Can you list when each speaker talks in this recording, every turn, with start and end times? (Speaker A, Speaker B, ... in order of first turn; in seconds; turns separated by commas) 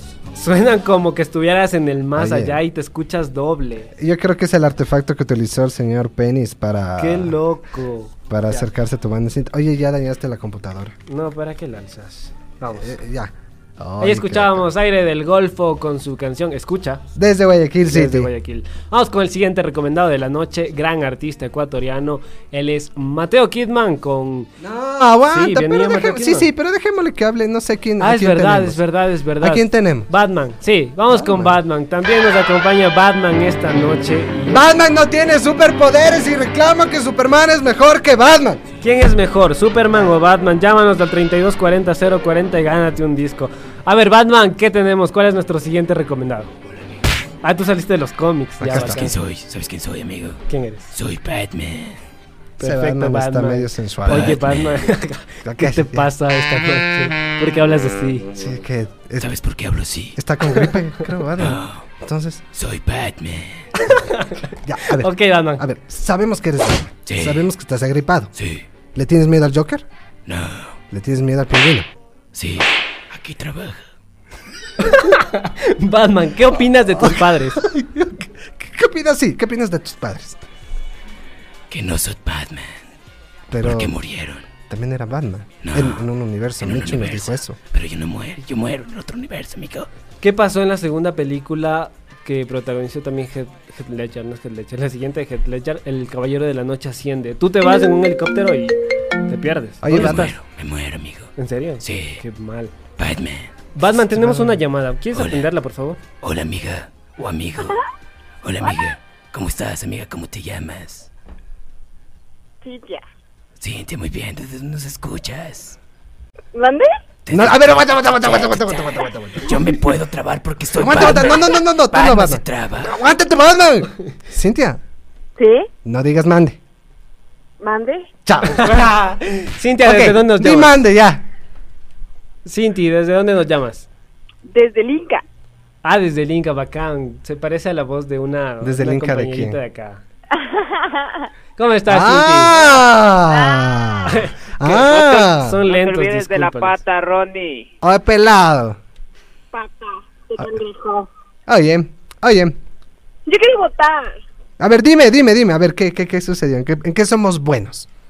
Speaker A: 0.3-3.9, Speaker B: 2.2-2.6, Speaker B: 4.0-7.4, Speaker A: 7.0-8.6, Speaker B: 8.3-10.9, Speaker A: 11.1-12.9, Speaker B: 12.8-14.7, Speaker A: 14.0-17.0, Speaker B: 17.2-18.3, Speaker A: 17.8-24.5, Speaker B: 24.6-28.8, Speaker A: 25.3-26.5, Speaker A: 28.0-34.6, Speaker B: 29.4-30.1, Speaker B: 31.1-31.6, Speaker B: 34.5-38.6, Speaker A: 38.8-46.5, Speaker A: 47.4-49.1, Speaker B: 48.6-49.1, Speaker C: 48.9-50.4, Speaker A: 50.5-50.9, Speaker C: 50.9-52.0, Speaker A: 52.6-58.3, Speaker B: 52.6-54.4, Speaker C: 54.1-54.5, Speaker B: 55.4-56.1, Speaker B: 58.4-59.4, Speaker C: 59.2-60.1, Speaker B: 60.1-62.4, Speaker C: 62.6-63.5, Speaker A: 63.8-65.6, Speaker B: 64.6-68.3, Speaker B: 69.0-69.8, Speaker C: 70.3-70.7, Speaker B: 70.9-71.9, Speaker C: 72.4-73.8, Speaker A: 74.8-77.7, Speaker B: 77.0-80.5, Speaker C: 81.7-82.7, Speaker B: 83.5-84.0, Speaker C: 83.7-84.4, Speaker B: 84.7-87.6, Speaker C: 85.7-86.0, Speaker C: 86.6-89.9, Speaker A: 90.2-98.8, Speaker A: 99.3-100.3, Speaker B: 99.8-100.4, Speaker C: 99.9-101.2, Speaker A: 101.4-102.7, Speaker C: 101.9-102.2, Speaker C: 103.0-103.5, Speaker A: 103.8-106.0, Speaker B: 104.0-104.6, Speaker C: 106.2-107.7, Speaker C: 108.4-111.0, Speaker D: 112.6-113.0, Speaker C: 113.6-115.7, Speaker D: 116.5-116.9, Speaker C: 117.3-117.7, Speaker B: 117.3-119.8, Speaker C: 118.2-118.6, Speaker C: 119.5-122.9, Speaker B: 120.8-124.8, Speaker D: 125.4-125.7, Speaker B: 125.8-126.6, Speaker D: 127.6-128.1, Speaker B: 128.3-129.0, Speaker A: 128.5-130.8, Speaker B: 129.8-131.2, Speaker A: 132.4-133.9, Speaker D: 134.5-135.2, Speaker A: 135.8-140.0, Speaker B: 138.6-139.6, Speaker D: 140.3-141.3, Speaker A: 141.6-142.6, Speaker B: 141.9-145.6, Speaker D: 143.3-144.0, Speaker A: 144.1-146.8, Speaker E: 145.7-147.7, Speaker B: 147.8-148.8, Speaker D: 149.5-151.1, Speaker B: 151.5-152.6, Speaker D: 153.3-154.2, Speaker B: 154.6-157.9